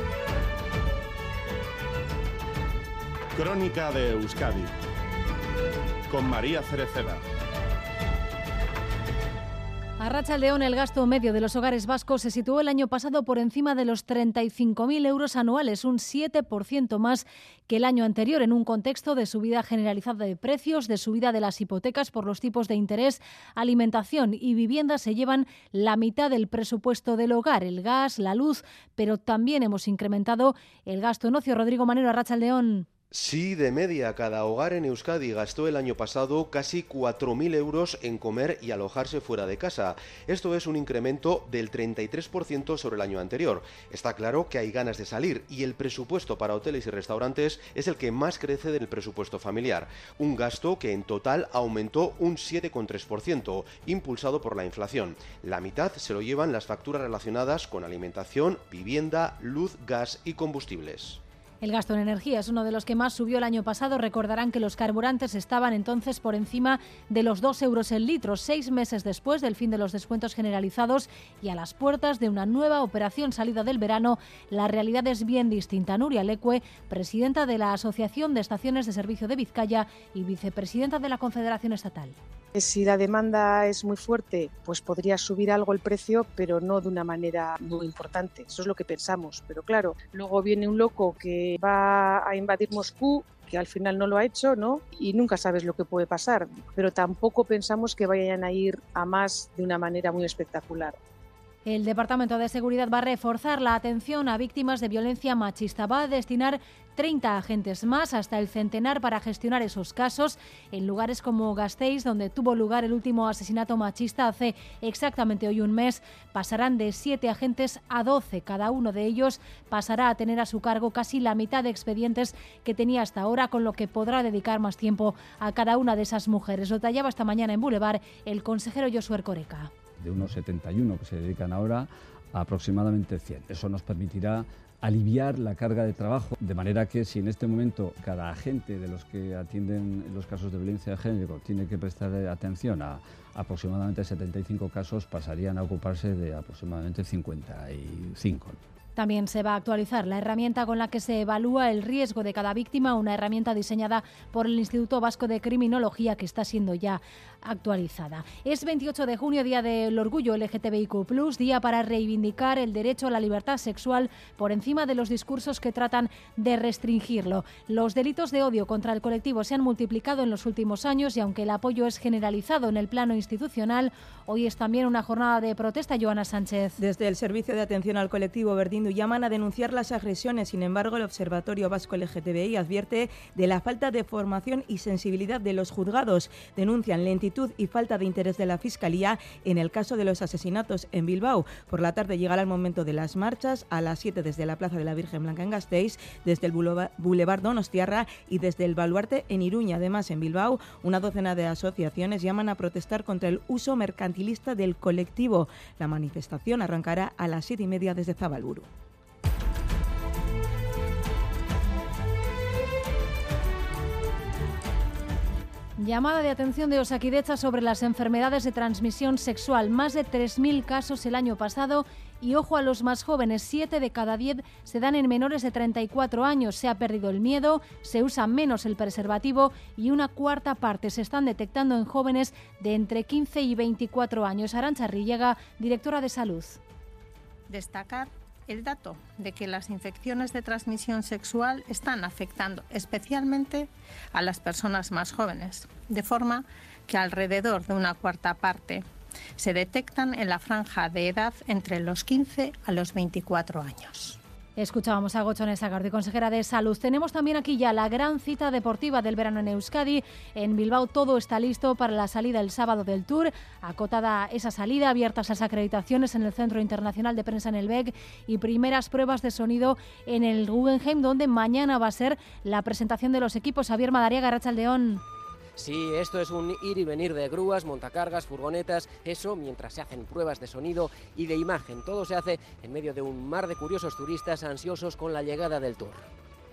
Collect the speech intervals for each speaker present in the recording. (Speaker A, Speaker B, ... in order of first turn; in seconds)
Speaker A: 3.4-4.7, 6.1-7.2
Speaker B: 10.0-32.9, 61.6-82.2, 101.7-129.7, 149.0-176.8, 215.8-236.6, 254.6-275.0
Speaker C: 33.1-61.2
Speaker D: 82.5-101.0
Speaker E: 130.0-148.6
Speaker F: 176.8-208.7
Speaker G: 237.5-248.9, 249.4-254.2
Speaker H: 275.6-286.1